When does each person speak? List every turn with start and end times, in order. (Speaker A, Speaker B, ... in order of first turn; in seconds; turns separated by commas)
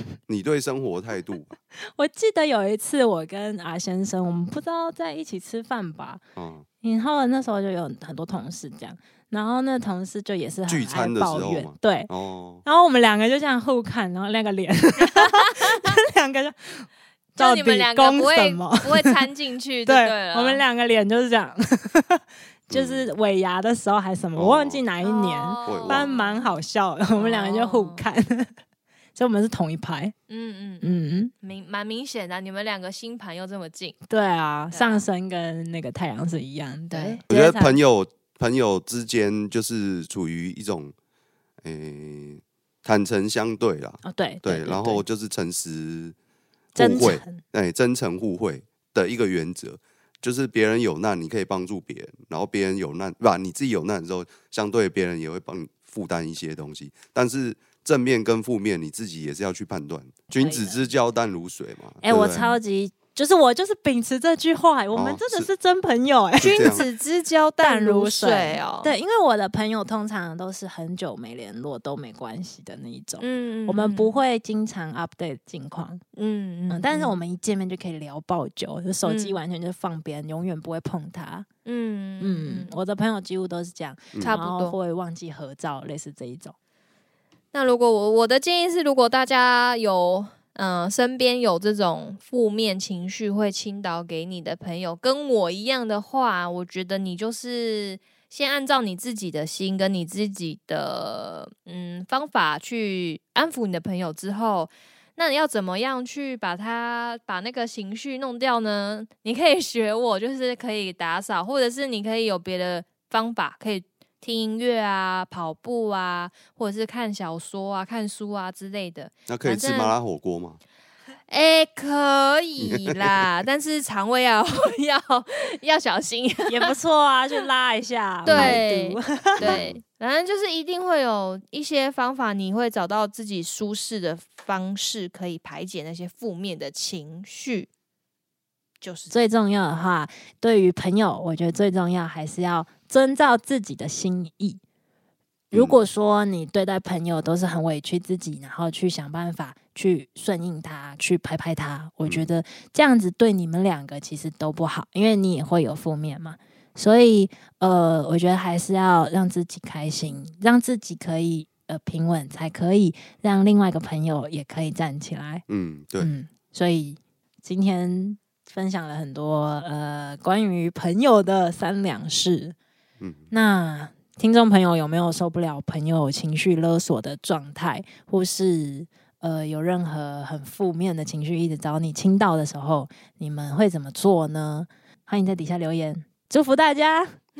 Speaker A: 0.3-1.6, Speaker B: 1.8-6.2, Speaker A: 6.4-6.7, Speaker B: 6.8-12.1, Speaker A: 10.7-12.6, Speaker B: 12.7-19.1, Speaker C: 17.4-20.6, Speaker B: 19.9-28.5, Speaker A: 22.7-23.1, Speaker A: 24.4-24.8, Speaker C: 25.0-26.5, Speaker A: 25.7-26.1, Speaker C: 27.2-28.1, Speaker B: 29.1-30.1, Speaker C: 30.3-34.0, Speaker B: 30.8-31.3, Speaker B: 34.1-37.8, Speaker C: 34.7-35.0, Speaker C: 36.9-37.2, Speaker A: 37.3-40.9, Speaker A: 41.6-46.1, Speaker B: 44.0-45.0, Speaker A: 46.8-62.6, Speaker B: 46.8-47.4, Speaker B: 60.4-60.8, Speaker B: 62.0-66.8, Speaker A: 64.9-65.5, Speaker A: 66.4-66.8, Speaker C: 66.4-68.9, Speaker B: 67.6-76.0, Speaker C: 73.2-74.2, Speaker C: 76.2-77.2, Speaker B: 76.7-81.5, Speaker C: 79.0-79.4, Speaker C: 81.7-82.7, Speaker B: 82.2-86.5, Speaker C: 84.2-84.8, Speaker C: 87.5-120.0, Speaker A: 119.3-120.6, Speaker C: 121.3-126.7, Speaker A: 122.6-123.2, Speaker B: 126.5-129.7, Speaker C: 128.2-137.7, Speaker A: 128.3-128.6, Speaker A: 129.4-129.8, Speaker C: 138.8-139.1, Speaker B: 139.1-144.6, Speaker B: 145.5-165.4, Speaker A: 145.5-145.8, Speaker A: 165.5-166.1, Speaker B: 166.0-172.6, Speaker A: 173.0-173.3, Speaker B: 173.3-187.2